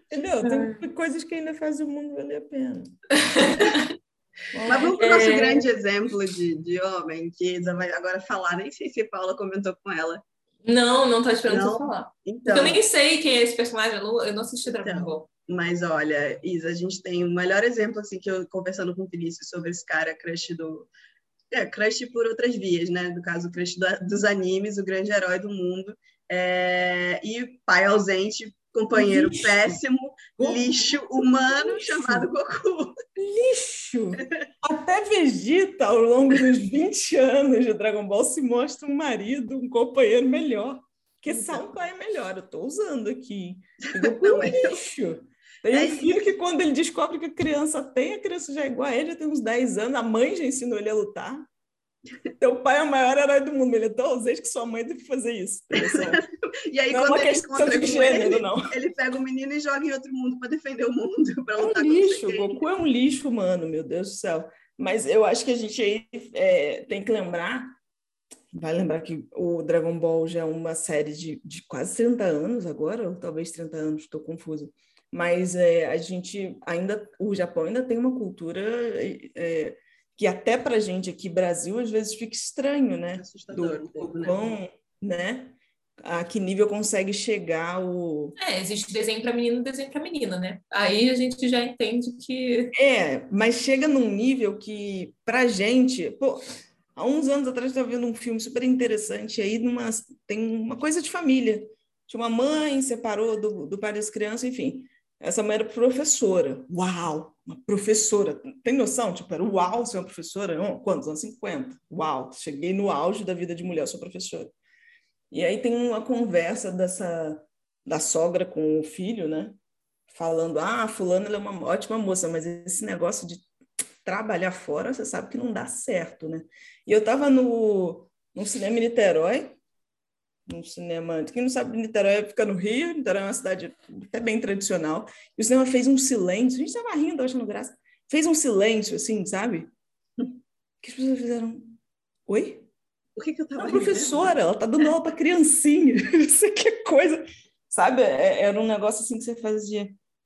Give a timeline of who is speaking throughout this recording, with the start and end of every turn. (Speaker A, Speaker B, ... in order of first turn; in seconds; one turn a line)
Speaker A: 0.1-3.5
Speaker B: 0.4-0.8
Speaker B: 3.1-3.9
Speaker A: 4.5-5.0
Speaker C: 4.7-10.2
Speaker B: 4.9-5.6
Speaker B: 10.7-15.3
Speaker C: 11.5-12.8
Speaker C: 14.8-20.9
Speaker C: 21.5-33.0
Speaker A: 28.9-29.7
Speaker A: 30.4-32.3
Speaker A: 33.2-51.5
Speaker C: 41.3-41.6
Speaker C: 43.8-44.8
Speaker C: 45.7-46.1
Speaker A: 52.4-56.2
Speaker C: 55.7-62.6
Speaker A: 56.9-58.7
Speaker A: 61.6-67.8
Speaker A: 68.5-88.3
Speaker C: 83.2-84.5
Speaker B: 88.4-92.7
Speaker A: 92.7-96.4
Speaker A: 96.9-114.5
Speaker A: 115.3-119.6
Speaker A: 120.1-123.5
Speaker A: 124.0-129.6
Speaker A: 130.4-139.7
Speaker A: 140.8-142.7
Speaker C: 143.2-144.3
Speaker A: 143.6-149.9